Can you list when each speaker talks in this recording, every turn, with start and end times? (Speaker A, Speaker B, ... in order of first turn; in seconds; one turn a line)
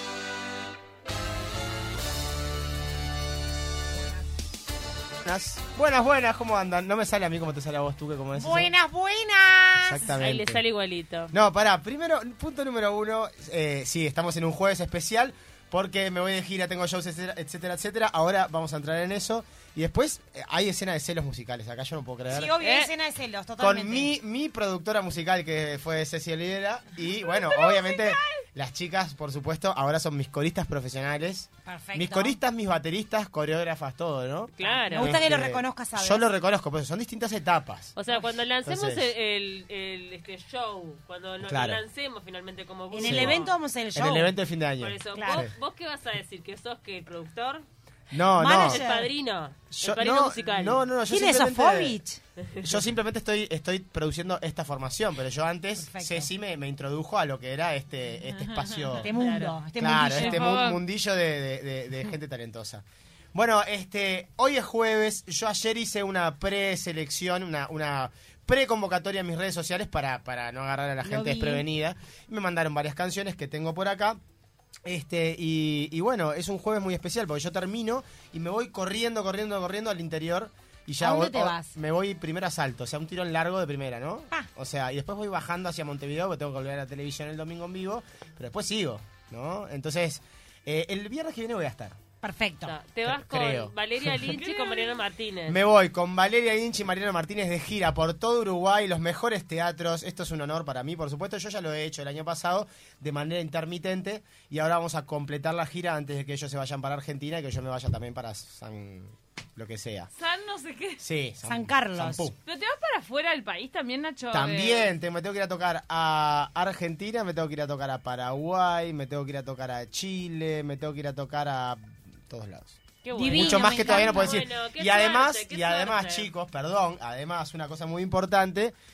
Speaker A: 5.2-8.7
Speaker B: 8.3-10.0
Speaker A: 9.7-10.6
Speaker C: 10.0-11.3
Speaker A: 11.3-22.6
Speaker B: 22.3-24.1
Speaker A: 23.6-38.0
Speaker D: 27.3-28.2
Speaker B: 31.6-32.4
Speaker C: 34.6-35.1
Speaker B: 34.6-36.3
Speaker C: 38.0-43.5
Speaker A: 38.6-39.0
Speaker A: 41.4-41.8
Speaker B: 42.9-44.3
Speaker A: 43.0-45.5
Speaker C: 44.8-47.6
Speaker B: 45.1-45.4
Speaker A: 48.1-48.9
Speaker B: 48.4-49.1
Speaker C: 48.6-50.8
Speaker A: 49.7-52.0
Speaker B: 51.1-52.2
Speaker C: 52.4-52.8
Speaker A: 52.6-59.1
Speaker B: 55.8-56.3
Speaker D: 58.3-58.8
Speaker B: 59.0-60.4
Speaker C: 59.1-59.6
Speaker A: 59.8-74.2
Speaker D: 60.2-60.8
Speaker B: 71.0-71.6
Speaker A: 74.8-92.0
Speaker B: 81.0-81.7
Speaker B: 92.2-92.8
Speaker C: 92.7-95.6
Speaker A: 93.0-94.1
Speaker D: 94.3-95.0
Speaker A: 95.5-110.1
Speaker D: 110.2-111.0
Speaker A: 111.0-112.3
Speaker B: 111.4-112.3
Speaker D: 112.5-114.9
Speaker A: 114.3-122.8
Speaker C: 123.0-126.3
Speaker B: 123.1-124.3
Speaker A: 123.3-128.7